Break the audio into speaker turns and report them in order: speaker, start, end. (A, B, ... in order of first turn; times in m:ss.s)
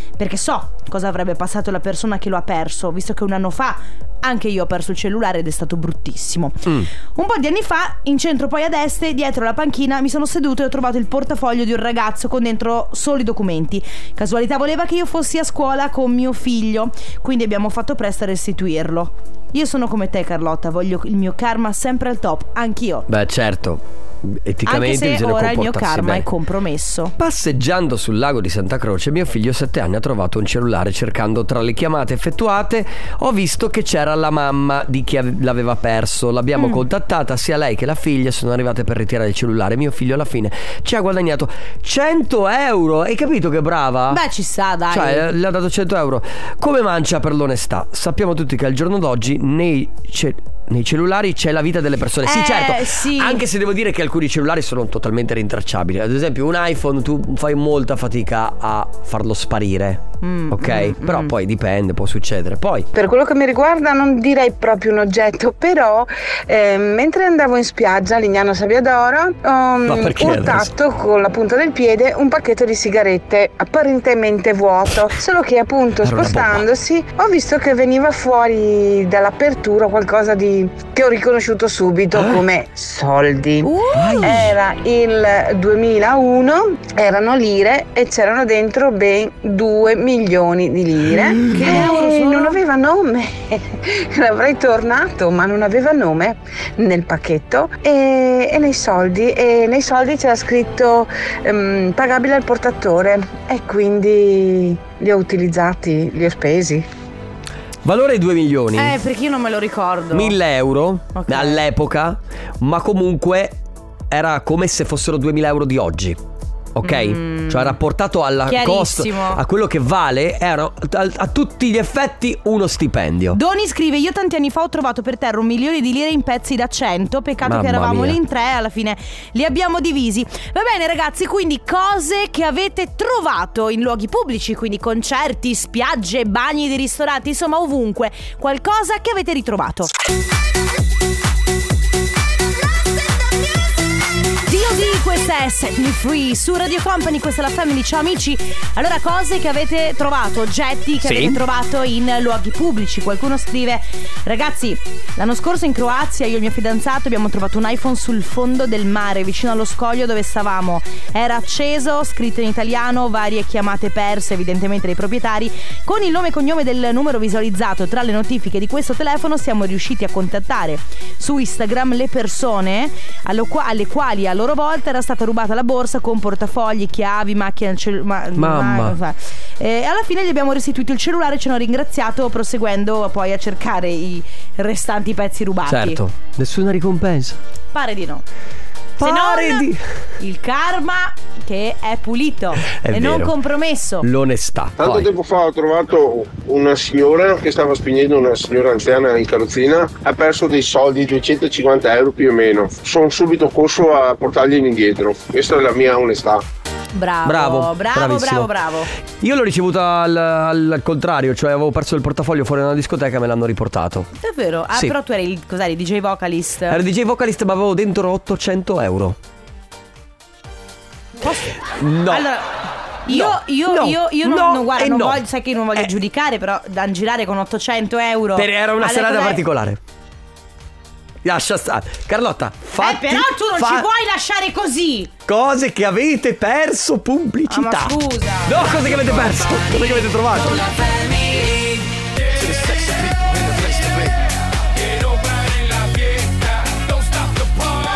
0:00.2-0:23.1 A
0:23.1-0:26.3 B
0:24.7-0:27.2 A
0:27.2-0:44.2 B
0:36.6-0:36.8 A
0:44.1-0:45.3 A
0:44.9-1:02.9 B
0:52.2-0:53.4 A
1:00.2-1:01.3 A
1:02.9-1:23.7 C
1:09.8-1:10.7 B
1:16.0-1:16.7 B
1:22.2-1:22.4 B
1:23.6-1:24.4 A
1:24.0-1:24.6 B
1:24.2-1:46.9 C
1:31.4-1:31.9 B
1:31.5-1:32.6 A
1:47.8-1:49.0 B
1:48.8-1:50.4 A
1:50.1-1:53.6 B
1:51.1-1:51.6 A
1:54.1-1:56.2 B
1:56.7-2:03.4 B
1:56.8-1:57.8 A
1:58.5-1:59.4 A
2:03.3-2:19.9 A
2:07.4-2:08.2 B
2:24.5-3:06.0 A
2:31.0-2:31.4 B
2:58.4-2:59.0 B
3:05.7-3:07.4 B
3:07.7-3:08.2 A
3:09.0-3:09.8 B
3:09.0-3:14.1 A
3:12.7-3:13.4 B
3:14.0-3:15.1 B
3:14.8-3:26.4 D
3:26.9-3:28.9 A
3:27.2-3:28.5 B
3:29.1-3:34.1 B
3:34.2-3:36.8 A
3:36.7-3:39.2 B
3:41.2-3:42.5 A
3:41.6-3:42.3 B
3:43.0-3:49.4 A
3:43.1-3:45.2 B
3:48.4-3:49.8 B
3:51.2-3:53.9 B
3:52.8-3:55.1 A
3:55.3-4:00.6 B
3:57.5-3:59.8 A
4:02.4-4:02.8 B